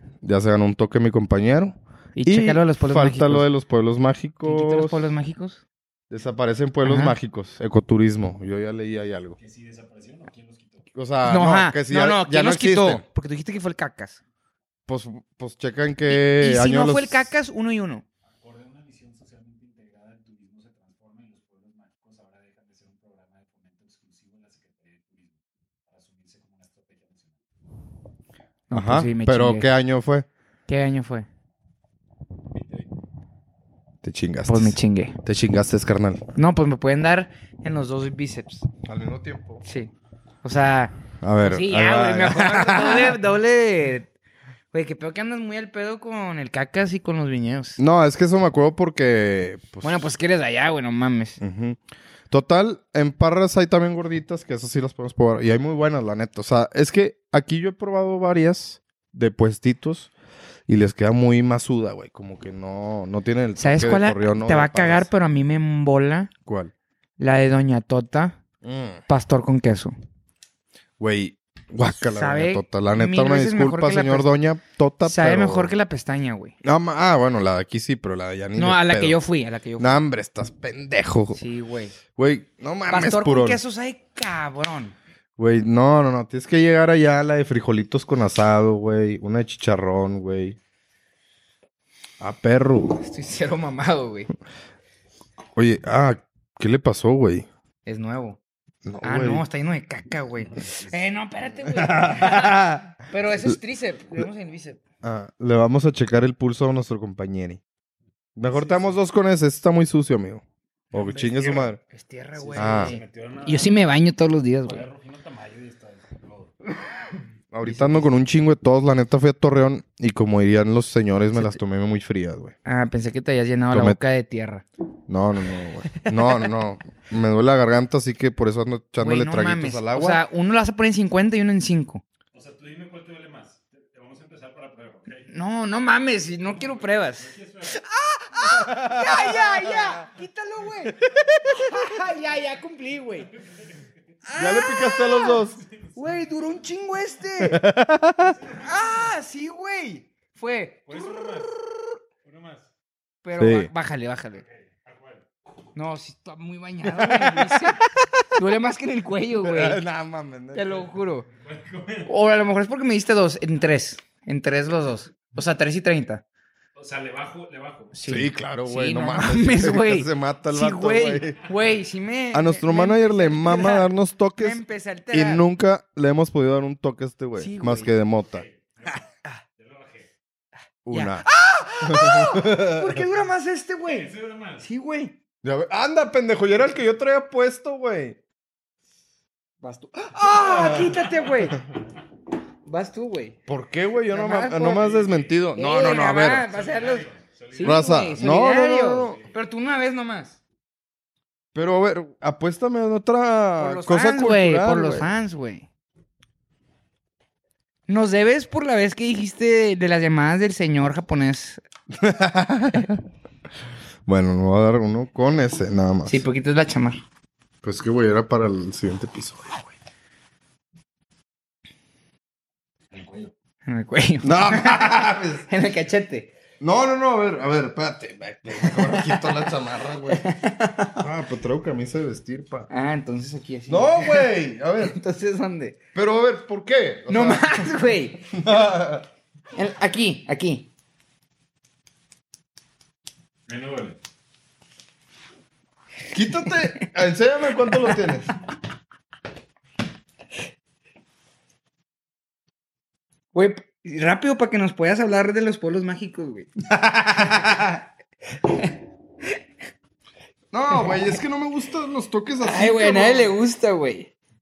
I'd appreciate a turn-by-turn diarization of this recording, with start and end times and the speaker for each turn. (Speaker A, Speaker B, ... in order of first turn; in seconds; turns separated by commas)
Speaker A: 0.2-5.1, Speaker B: 2.1-3.5, Speaker B: 4.4-5.6, Speaker A: 6.1-9.4, Speaker B: 6.8-7.2, Speaker C: 9.4-10.9, Speaker A: 10.9-13.0, Speaker B: 11.2-14.2, Speaker A: 14.9-17.3, Speaker B: 16.1-18.0, Speaker C: 18.4-27.4, Speaker B: 28.7-29.6, Speaker A: 28.7-30.3, Speaker B: 30.7-31.3, Speaker C: 32.5-32.9, Speaker A: 34.0-36.2, Speaker B: 34.5-35.2, Speaker B: 36.3-38.7, Speaker A: 38.8-39.6, Speaker B: 39.6-39.9, Speaker B: 40.4-44.1, Speaker A: 41.2-43.2, Speaker B: 44.7-47.8, Speaker A: 47.8-50.1, Speaker B: 49.8-51.4, Speaker A: 51.4-60.1, Speaker A: 60.7-65.1, Speaker B: 63.6-66.3, Speaker A: 66.5-66.7, Speaker B: 67.2-68.4, Speaker A: 68.6-69.0, Speaker B: 69.1-69.9, Speaker A: 71.0-75.7, Speaker B: 72.0-74.3, Speaker B: 75.0-76.5, Speaker A: 76.6-79.2, Speaker B: 78.5-80.0, Speaker A: 79.8-81.4, Speaker B: 81.3-81.9, Speaker A: 82.1-83.6, Speaker B: 82.9-84.9, Speaker A: 85.4-90.6, Speaker A: 92.2-93.0, Speaker B: 93.0-94.3, Speaker A: 95.5-97.5, Speaker B: 97.8-98.4, Speaker A: 98.8-99.4, Speaker B: 99.0-104.8, Speaker A: 101.7-102.9, Speaker A: 105.0-107.6, Speaker A: 108.4-111.8, Speaker C: 108.5-108.8, Speaker B: 111.0-114.8, Speaker C: 111.0-111.7, Speaker C: 112.3-113.8, Speaker A: 112.5-112.9, Speaker C: 114.6-116.5, Speaker A: 117.5-122.5, Speaker B: 117.6-118.1, Speaker B: 122.6-124.6, Speaker A: 123.7-124.0, Speaker A: 125.1-130.2, Speaker B: 129.0-132.0, Speaker C: 132.3-135.3, Speaker B: 135.3-143.3, Speaker C: 136.4-137.8, Speaker A: 138.6-139.8, Speaker A: 141.1-141.7, Speaker C: 143.5-143.8, Speaker B: 144.2-145.4, Speaker A: 144.3-145.6, Speaker C: 145.4-146.5, Speaker B: 145.9-147.6, Speaker A: 147.4-148.4, Speaker C: 148.3-149.1, Speaker B: 148.5-150.8, Speaker C: 150.9-151.6, Speaker C: 152.2-152.7, Speaker B: 153.2-154.4, Speaker A: 153.4-153.7, Speaker C: 154.4-155.2, Speaker B: 155.7-159.8, Speaker A: 156.8-158.2, Speaker A: 159.4-160.8, Speaker B: 160.5-161.3, Speaker C: 161.3-162.1, Speaker B: 162.1-166.2, Speaker C: 166.8-168.0, Speaker B: 167.9-175.4, Speaker A: 168.1-171.4, Speaker A: 172.3-174.6, Speaker A: 175.1-178.4, Speaker B: 177.4-177.9, Speaker C: 178.3-180.1, Speaker A: 180.8-181.2, Speaker B: 180.9-185.1, Speaker A: 181.8-183.0, Speaker C: 183.8-184.6, Speaker A: 185.4-188.2, Speaker B: 189.6-191.6, Speaker A: 190.2-190.9, Speaker C: 190.7-191.2, Speaker B: 192.7-193.4, Speaker A: 193.5-196.5, Speaker B: 194.1-194.9, Speaker C: 194.8-195.4, Speaker B: 195.5-200.4, Speaker C: 196.4-198.1, Speaker A: 197.6-199.2, Speaker C: 199.0-199.3, Speaker A: 201.5-205.1, Speaker B: 203.6-205.7, Speaker B: 207.9-211.6, Speaker A: 211.9-213.0, Speaker A: 214.1-216.2, Speaker B: 216.1-217.0, Speaker A: 217.6-219.7, Speaker C: 222.9-223.3, Speaker B: 223.7-226.3, Speaker A: 224.2-225.4, Speaker A: 226.6-230.2, Speaker B: 228.6-229.3, Speaker B: 230.1-231.0, Speaker A: 231.0-232.7, Speaker B: 232.7-235.8, Speaker A: 233.7-235.0, Speaker A: 235.9-237.8, Speaker B: 237.1-238.3, Speaker A: 238.3-239.1, Speaker B: 239.5-240.7, Speaker C: 243.5-244.0, Speaker A: 246.1-248.3, Speaker B: 253.3-256.5, Speaker A: 256.7-257.8, Speaker B: 257.2-257.7, Speaker B: 258.4-259.3, Speaker A: 260.5-263.3, Speaker B: 260.7-261.1, Speaker B: 262.4-264.1